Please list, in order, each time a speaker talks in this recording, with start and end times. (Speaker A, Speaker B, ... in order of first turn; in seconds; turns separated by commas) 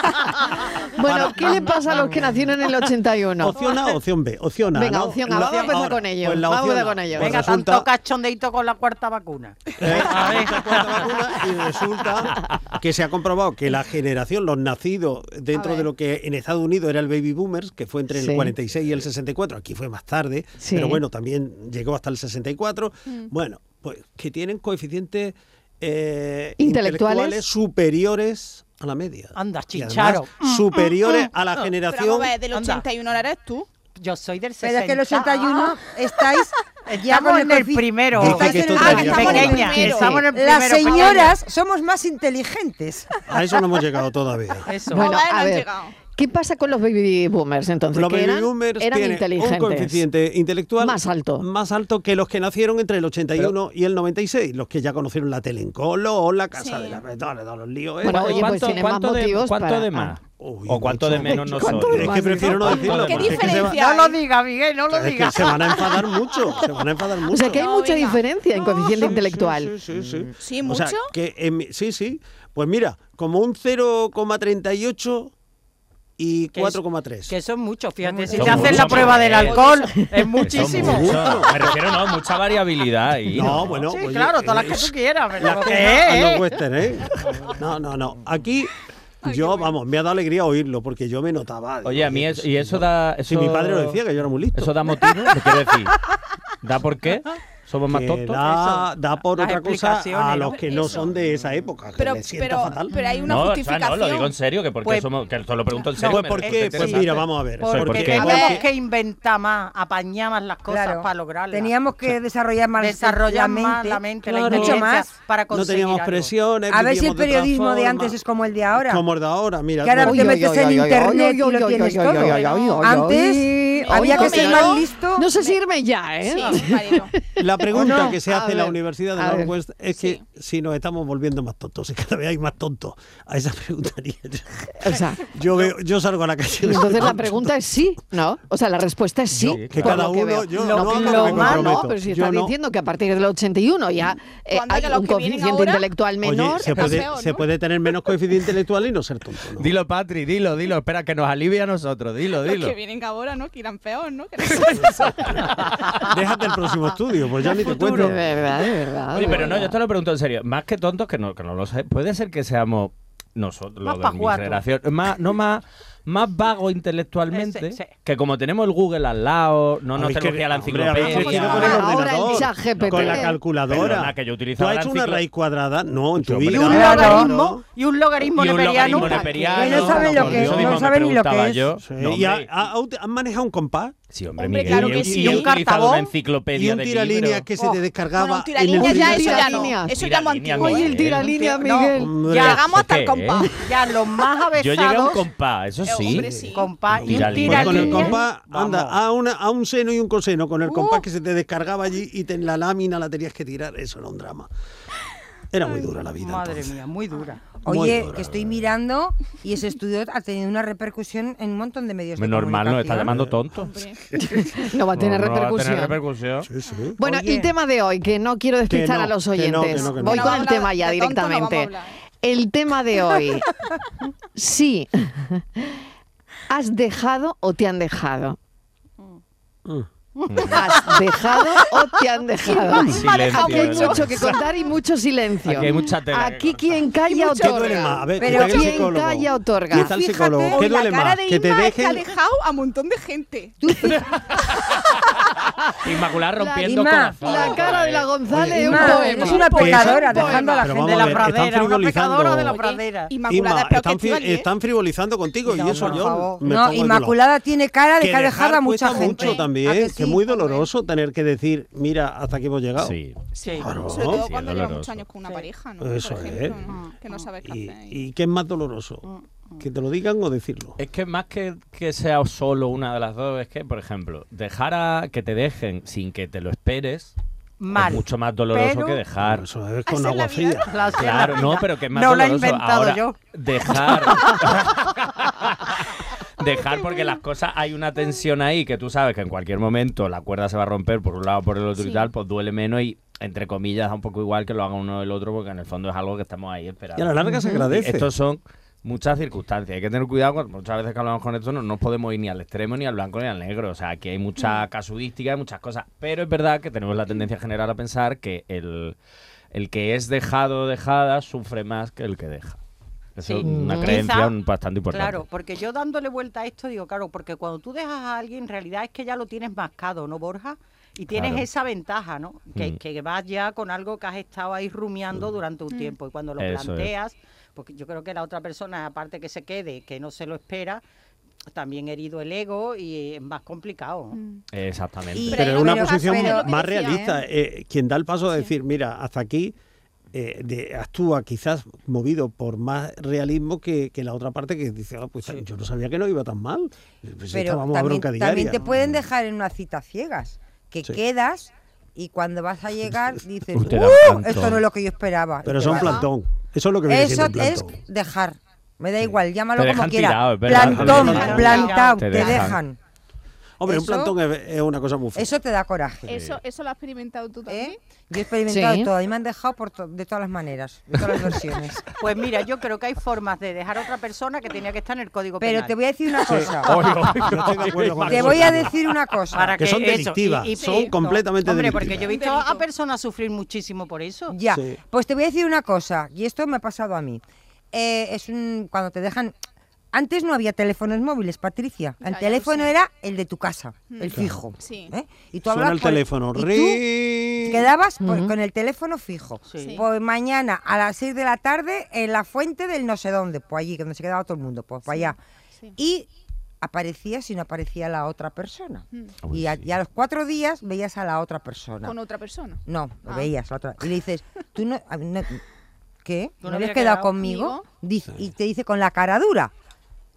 Speaker A: 1.0-3.6, Speaker B: 1.0-2.2, Speaker B: 3.4-7.9, Speaker C: 3.5-3.9, Speaker A: 4.7-7.5, Speaker C: 5.3-5.8, Speaker C: 7.1-11.4, Speaker B: 9.8-32.4, Speaker D: 15.5-15.8, Speaker A: 18.1-18.5, Speaker A: 20.6-21.0, Speaker A: 26.6-27.4, Speaker C: 29.3-31.7, Speaker D: 31.9-33.7, Speaker C: 32.5-32.9, Speaker C: 34.0-35.7, Speaker E: 34.6-43.2, Speaker C: 36.9-41.4, Speaker B: 38.1-40.2, Speaker D: 38.8-40.2, Speaker D: 40.8-41.3, Speaker B: 43.3-44.7, Speaker C: 44.6-45.1, Speaker A: 44.9-50.0, Speaker D: 44.9-46.0, Speaker B: 47.9-58.6, Speaker A: 50.8-51.5, Speaker D: 56.6-57.0, Speaker A: 58.0-60.1, Speaker F: 58.0-63.6, Speaker B: 60.4-63.8, Speaker A: 61.1-62.9, Speaker D: 62.8-64.2, Speaker C: 63.4-66.0, Speaker B: 64.9-67.7, Speaker A: 67.3-69.7, Speaker D: 67.4-69.2, Speaker B: 68.9-75.3, Speaker D: 70.4-71.1, Speaker B: 76.2-77.3, Speaker C: 76.5-81.4, Speaker E: 78.1-79.0, Speaker F: 78.3-79.8, Speaker B: 78.3-79.1, Speaker D: 79.3-79.9, Speaker F: 80.4-83.8, Speaker B: 80.6-81.8, Speaker B: 83.3-88.7, Speaker C: 83.8-86.6, Speaker D: 89.2-89.7, Speaker B: 89.2-94.9, Speaker F: 91.8-94.0, Speaker F: 94.5-96.0, Speaker F: 96.6-98.5, Speaker B: 97.9-102.9, Speaker C: 98.5-101.0, Speaker D: 100.6-101.1, Speaker D: 102.0-104.3, Speaker F: 103.2-108.4, Speaker C: 104.8-105.1, Speaker C: 105.7-111.8, Speaker B: 106.0-108.6, Speaker D: 108.2-108.6, Speaker E: 110.7-115.1, Speaker C: 112.8-116.3, Speaker B: 114.2-114.9, Speaker B: 115.5-118.2, Speaker E: 116.7-119.0, Speaker B: 118.7-120.5, Speaker E: 119.8-125.3, Speaker A: 120.0-129.5, Speaker D: 123.8-125.6, Speaker D: 126.2-127.1, Speaker B: 127.4-137.6, Speaker E: 127.7-128.1, Speaker D: 129.9-130.2, Speaker A: 134.8-135.2, Speaker A: 136.6-147.1, Speaker B: 139.3-142.5, Speaker F: 139.4-140.0, Speaker C: 140.5-141.8, Speaker D: 144.5-145.9, Speaker B: 146.2-149.7, Speaker D: 146.6-147.4, Speaker F: 149.6-152.7, Speaker D: 152.4-155.5, Speaker F: 154.8-155.4, Speaker B: 156.1-158.2, Speaker C: 157.4-158.2, Speaker A: 157.9-159.7, Speaker F: 159.1-172.1, Speaker C: 163.8-164.6, Speaker C: 167.3-167.9, Speaker B: 169.9-177.6, Speaker C: 171.2-171.6, Speaker A: 171.5-173.4, Speaker F: 172.7-175.2, Speaker F: 176.2-176.9, Speaker C: 176.5-180.7, Speaker E: 176.6-177.3, Speaker F: 178.3-182.5, Speaker E: 179.5-181.6, Speaker B: 180.0-180.8, Speaker B: 181.8-183.9, Speaker F: 184.1-187.5, Speaker D: 184.4-185.5, Speaker B: 184.7-185.4, Speaker C: 184.9-186.1, Speaker B: 186.5-189.7, Speaker D: 187.6-191.0, Speaker A: 188.8-190.0, Speaker F: 189.8-191.3, Speaker A: 190.6-192.2, Speaker C: 191.2-192.7, Speaker B: 192.0-192.6, Speaker D: 192.3-193.6, Speaker F: 192.4-193.6, Speaker C: 193.6-195.3, Speaker F: 194.5-196.3, Speaker D: 195.8-196.7, Speaker B: 196.1-204.5, Speaker C: 196.5-198.9, Speaker F: 196.9-198.2, Speaker B: 205.5-206.8, Speaker C: 206.2-207.6, Speaker B: 207.6-208.7, Speaker E: 207.6-213.1, Speaker F: 212.2-213.7, Speaker B: 213.0-213.7, Speaker D: 213.6-214.0, Speaker A: 214.2-216.0, Speaker F: 214.9-216.5, Speaker B: 216.4-217.0, Speaker A: 217.0-223.5, Speaker E: 217.0-217.5, Speaker B: 218.7-220.5, Speaker D: 219.7-221.9, Speaker A: 224.3-225.8, Speaker A: 226.5-228.4, Speaker C: 230.2-231.1, Speaker F: 230.3-230.7, Speaker A: 230.5-239.9, Speaker D: 232.5-234.4, Speaker F: 232.8-234.4, Speaker F: 235.4-236.8, Speaker D: 237.1-238.1, Speaker B: 237.3-242.1, Speaker E: 238.2-238.9, Speaker E: 239.7-241.2, Speaker D: 240.4-243.6, Speaker E: 243.6-244.1, Speaker F: 245.8-248.1, Speaker A: 246.3-250.5, Speaker E: 246.6-247.6, Speaker B: 248.3-248.8, Speaker E: 248.5-251.2, Speaker D: 248.9-250.2, Speaker B: 249.4-252.6, Speaker C: 250.1-253.2, Speaker D: 252.5-254.5, Speaker B: 253.3-257.2, Speaker E: 255.4-260.6, Speaker C: 255.7-256.0, Speaker B: 258.0-262.9, Speaker D: 258.9-259.5, Speaker F: 262.8-263.2, Speaker D: 263.4-268.0, Speaker C: 263.4-263.9, Speaker B: 263.6-264.2, Speaker F: 263.9-265.0, Speaker B: 265.8-266.7, Speaker C: 266.2-267.2, Speaker B: 267.4-269.0, Speaker C: 269.0-269.6, Speaker B: 269.6-270.8, Speaker F: 270.8-277.1, Speaker C: 277.6-279.0, Speaker F: 277.7-279.4, Speaker B: 279.2-280.7, Speaker D: 279.9-280.7, Speaker C: 280.6-283.1, Speaker F: 280.9-285.8, Speaker F: 286.4-308.9, Speaker D: 291.8-292.1, Speaker B: 296.9-298.1, Speaker A: 297.2-297.6, Speaker F: 309.5-312.6, Speaker F: 313.1-315.2, Speaker C: 313.2-314.3, Speaker A: 313.4-314.0, Speaker C: 314.9-330.8, Speaker F: 321.1-321.5, Speaker D: 325.7-325.9, Speaker F: 326.4-326.9, Speaker C: 331.5-334.2, Speaker D: 334.1-334.4, Speaker F: 334.5-335.4, Speaker E: 335.2-337.2, Speaker D: 335.3-337.1, Speaker B: 335.3-339.5, Speaker B: 340.1-348.7, Speaker E: 347.3-356.1, Speaker F: 353.6-354.6, Speaker B: 355.4-357.7, Speaker E: 356.9-362.8, Speaker F: 359.5-362.6, Speaker B: 360.5-361.4, Speaker C: 360.6-362.3, Speaker D: 361.4-362.4, Speaker B: 363.6-365.3, Speaker E: 363.7-364.1, Speaker E: 365.1-366.1, Speaker D: 366.1-367.8, Speaker F: 366.1-366.4, Speaker E: 367.5-371.9, Speaker A: 368.4-368.9, Speaker C: 372.0-375.8, Speaker E: 375.4-376.7, Speaker B: 376.2-378.7, Speaker F: 376.6-378.9, Speaker E: 378.1-379.6, Speaker C: 379.3-384.4, Speaker B: 379.6-382.1, Speaker D: 380.6-380.9, Speaker D: 382.0-382.6, Speaker E: 384.3-389.3, Speaker B: 384.5-384.8, Speaker E: 389.9-396.8, Speaker D: 392.0-392.7, Speaker D: 393.9-394.9, Speaker B: 395.5-397.7, Speaker E: 397.4-405.2, Speaker A: 398.0-398.3, Speaker C: 399.5-399.8, Speaker D: 399.6-399.8, Speaker D: 404.9-405.7, Speaker E: 405.8-406.1, Speaker E: 406.6-411.9, Speaker F: 409.2-409.7, Speaker D: 411.8-413.3, Speaker E: 412.7-415.4, Speaker E: 416.0-419.5, Speaker C: 416.4-417.2, Speaker D: 417.2-417.6